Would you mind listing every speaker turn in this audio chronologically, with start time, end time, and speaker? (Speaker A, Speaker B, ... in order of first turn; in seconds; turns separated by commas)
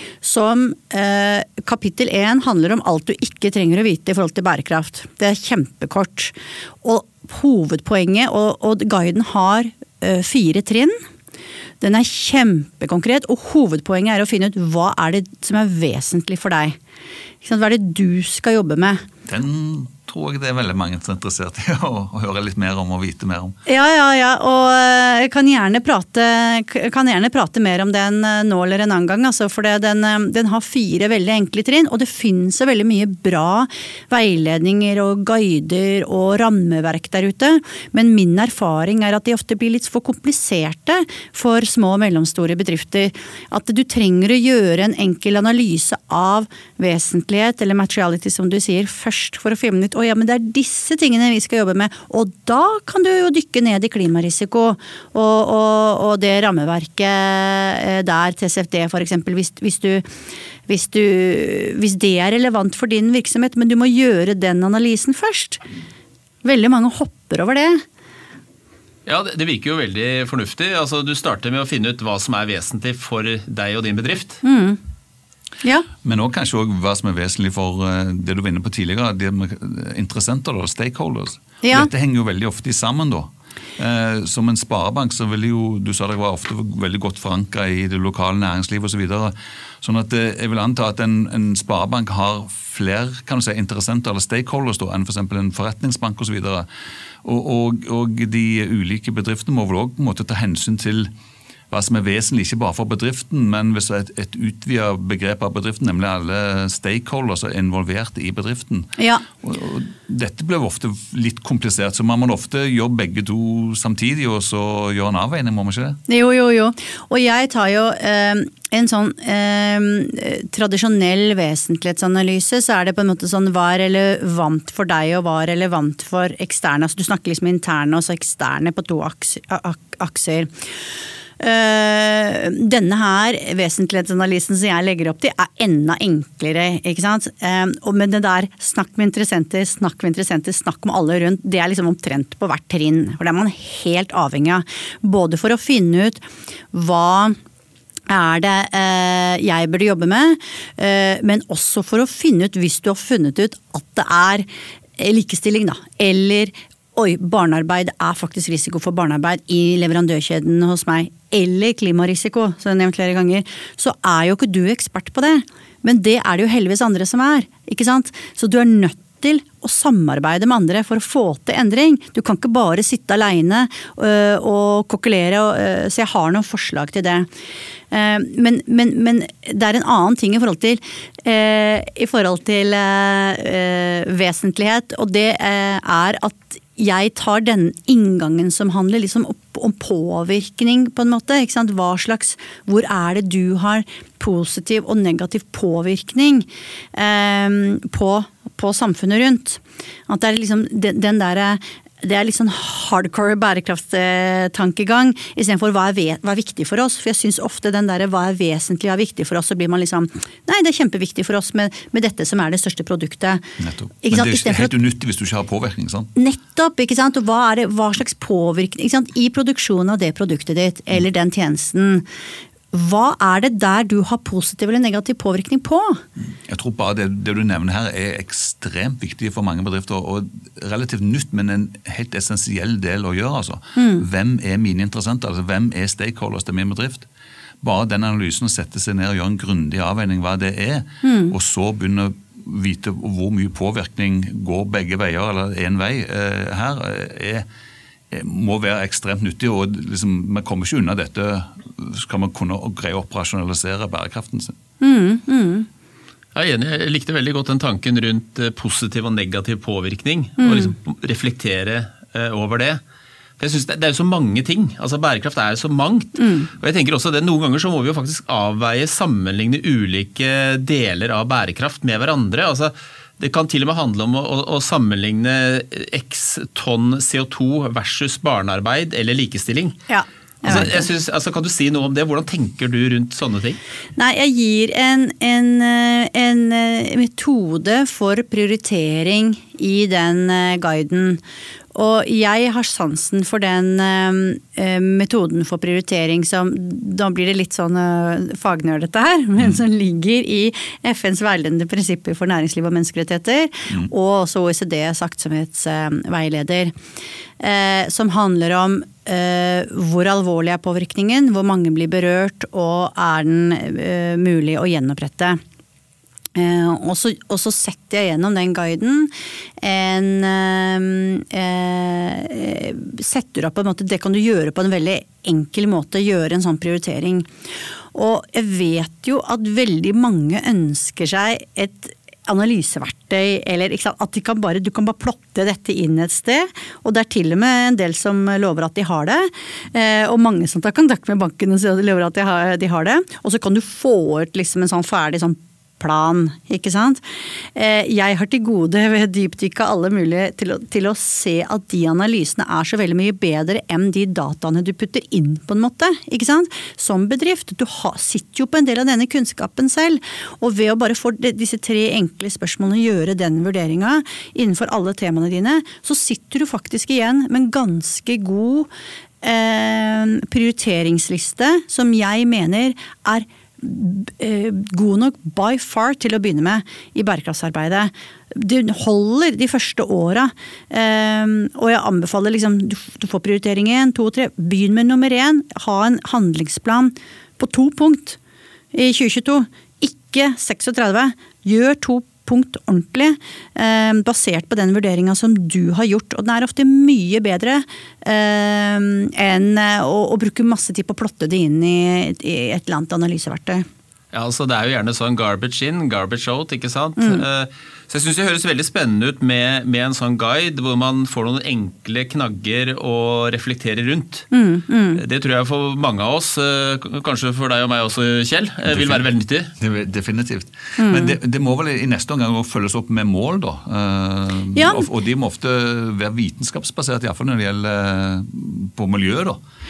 Speaker A: 0.2-11.0, Speaker A: 11.8-16.8, Speaker A: 17.4-19.1, Speaker B: 19.2-23.6, Speaker A: 23.7-60.1, Speaker A: 60.7-65.6, Speaker A: 66.4-67.8, Speaker C: 69.0-74.4, Speaker A: 74.4-74.8, Speaker A: 75.6-75.9, Speaker B: 76.0-96.7, Speaker A: 81.6-81.9, Speaker B: 97.2-101.1, Speaker B: 101.7-116.0, Speaker A: 109.0-109.2, Speaker A: 116.1-130.5, Speaker A: 131.4-147.3, Speaker A: 148.1-154.5, Speaker A: 155.0-177.3, Speaker A: 177.9-213.4, Speaker B: 213.6-216.1, Speaker A: 214.0-214.7, Speaker A: 216.2-222.0, Speaker A: 222.7-226.0, Speaker B: 226.4-237.1, Speaker A: 233.8-234.0, Speaker B: 237.6-247.4, Speaker A: 241.0-241.3, Speaker B: 248.1-254.5, Speaker A: 254.8-255.7, Speaker C: 256.3-262.8, Speaker A: 260.4-260.7, Speaker C: 263.4-279.8, Speaker A: 266.2-266.5, Speaker A: 279.9-280.9, Speaker C: 280.4-283.6, Speaker A: 283.9-291.2, Speaker A: 291.7-306.7, Speaker A: 307.4-315.4, Speaker A: 316.3-327.3, Speaker A: 327.9-347.0, Speaker A: 347.5-368.7, Speaker A: 369.2-388.2, Speaker A: 388.7-403.6, Speaker C: 404.1-414.3, Speaker A: 407.0-407.2, Speaker A: 414.3-415.0, Speaker C: 414.9-419.5, Speaker B: 418.7-419.1, Speaker B: 419.6-429.4, Speaker A: 420.8-421.1, Speaker A: 424.5-424.9